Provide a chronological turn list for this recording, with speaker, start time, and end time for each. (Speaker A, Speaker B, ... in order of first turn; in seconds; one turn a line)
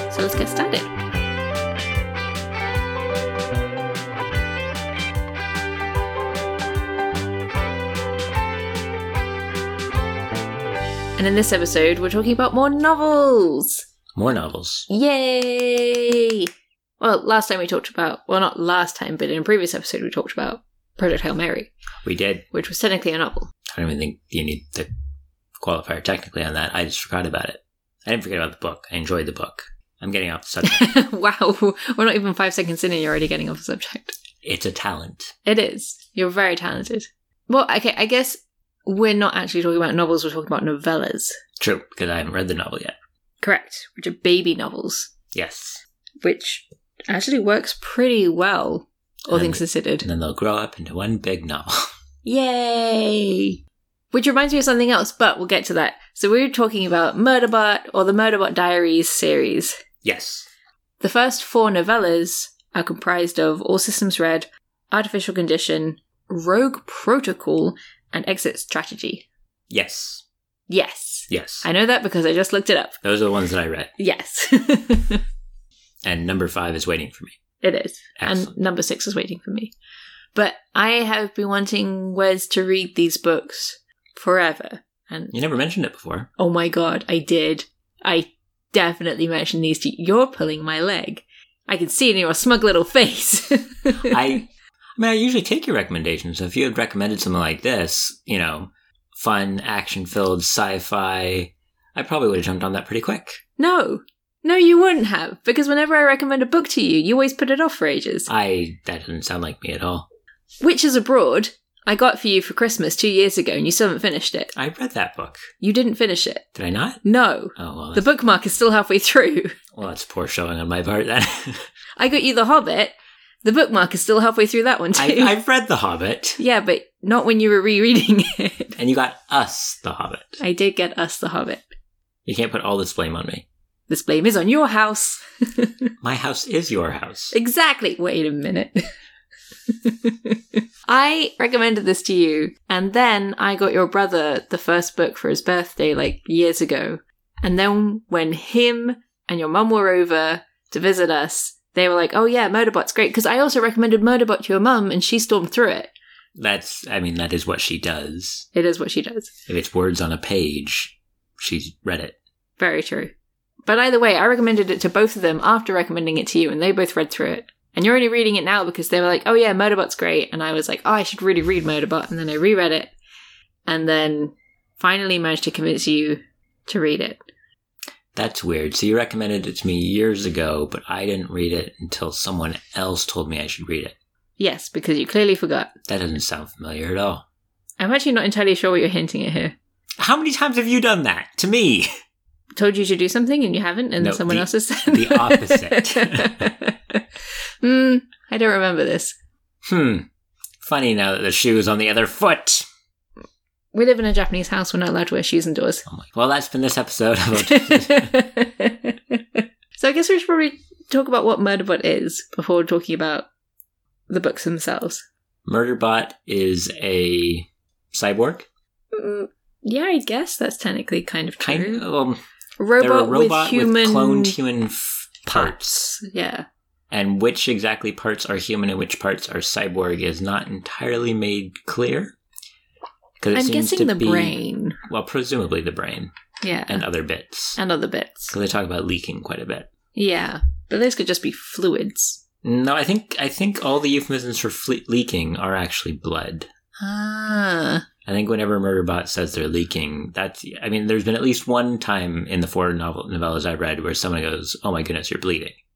Speaker A: 0.1-0.9
Speaker A: 11.2-13.8
Speaker B: 14.1-14.9
Speaker A: 14.9-16.5
Speaker A: 17.0-21.7
Speaker B: 22.0-22.4
Speaker A: 22.5-23.5
Speaker B: 23.7-24.9
Speaker B: 25.6-30.9
Speaker A: 30.6-34.2
Speaker B: 34.4-35.3
Speaker A: 35.5-41.4
Speaker B: 41.6-43.0
Speaker A: 43.4-45.1
Speaker B: 45.3-45.8
Speaker A: 46.2-50.0
Speaker B: 49.3-51.9
Speaker A: 52.2-53.6
Speaker A: 54.1-59.8
Speaker B: 60.0-60.5
Speaker A: 61.0-69.2
Speaker B: 69.7-70.2
Speaker A: 70.7-73.0
Speaker B: 71.3-71.7
Speaker B: 73.0-73.9
Speaker A: 74.0-75.2
Speaker B: 76.0-77.4
Speaker A: 77.6-79.7
Speaker B: 78.2-78.5
Speaker A: 80.3-85.3
Speaker B: 85.3-86.3
Speaker A: 86.4-94.4
Speaker B: 94.0-103.4
Speaker A: 103.6-108.3
Speaker B: 108.3-110.1
Speaker A: 110.6-114.5
Speaker B: 114.5-115.5
Speaker A: 115.6-116.5
Speaker B: 116.5-117.0
Speaker A: 117.0-119.6
Speaker B: 117.5-118.1
Speaker B: 119.7-121.7
Speaker A: 122.0-122.9
Speaker A: 123.4-125.3
Speaker B: 124.9-126.4
Speaker A: 126.4-128.8
Speaker B: 128.8-130.4
Speaker A: 130.4-131.6
Speaker B: 132.2-133.4
Speaker A: 133.9-135.9
Speaker B: 136.0-137.3
Speaker A: 137.3-138.9
Speaker A: 139.7-155.9
Speaker B: 156.3-158.5
Speaker A: 158.5-159.3
Speaker B: 159.5-162.2
Speaker A: 162.6-163.1
Speaker A: 163.7-172.9
Speaker A: 173.7-177.2
Speaker B: 178.1-183.9
Speaker A: 184.4-185.7
Speaker B: 185.9-187.2
Speaker A: 187.8-189.5
Speaker B: 190.0-191.9
Speaker A: 192.6-197.0
Speaker B: 194.0-196.5
Speaker A: 197.6-199.2
Speaker B: 199.7-200.1
Speaker B: 200.6-202.6
Speaker A: 203.7-205.8
Speaker B: 205.9-208.1
Speaker A: 207.4-213.2
Speaker A: 214.1-215.0
Speaker B: 215.4-218.5
Speaker A: 218.9-221.8
Speaker B: 221.4-222.2
Speaker A: 222.6-224.4
Speaker B: 222.8-225.9
Speaker A: 225.3-226.4
Speaker B: 226.9-232.2
Speaker B: 233.2-236.1
Speaker A: 233.3-234.8
Speaker A: 236.4-236.8
Speaker B: 236.7-237.6
Speaker A: 237.6-238.3
Speaker B: 238.3-239.7
Speaker A: 239.9-242.2
Speaker B: 242.4-246.5
Speaker A: 246.8-247.8
Speaker B: 248.0-255.6